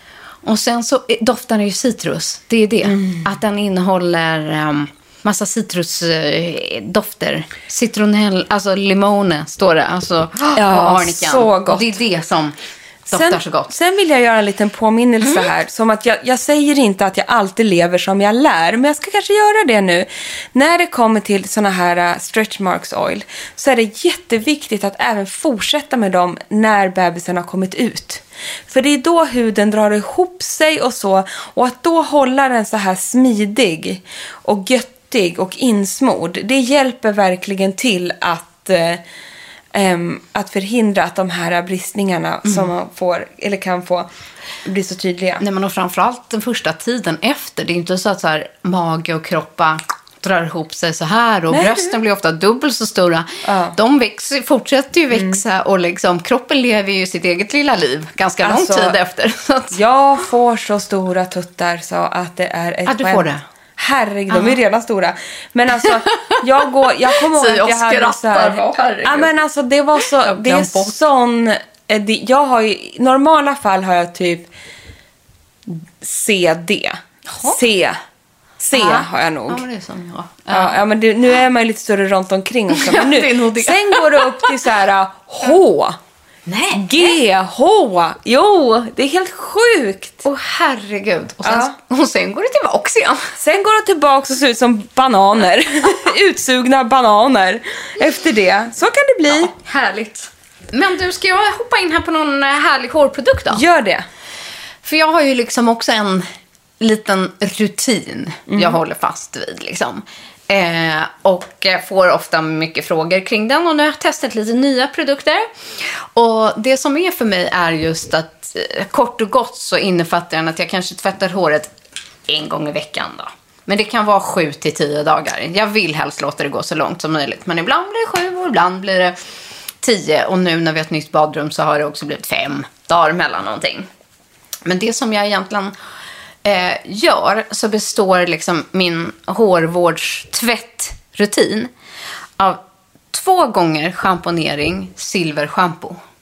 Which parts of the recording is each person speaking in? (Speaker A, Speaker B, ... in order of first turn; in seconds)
Speaker A: 0.4-12.5, 13.1-13.7, 45.4-59.8, 62.9-63.4, 64.3-64.6, 66.1-66.4, 67.1-69.3, 70.0-70.9, 77.3-77.6, 78.7-80.8, 82.7-84.6, 86.5-87.1, 90.2-93.3, 99.3-103.6, 104.8-106.3, 106.8-121.7, 122.3-129.2, 129.8-133.9, 134.6-135.7, 136.4-141.7, 142.4-146.0
Speaker B: 2.9-3.2, 10.5-12.0, 13.1-39.0, 39.7-44.1, 44.6-45.4, 51.5-52.0, 53.4-53.8, 55.1-55.4, 58.4-59.0, 59.7-74.5, 75.7-78.0, 78.6-79.6, 80.5-86.0, 86.7-90.2, 91.4-91.7, 93.4-99.5, 103.5-104.0, 108.5-108.8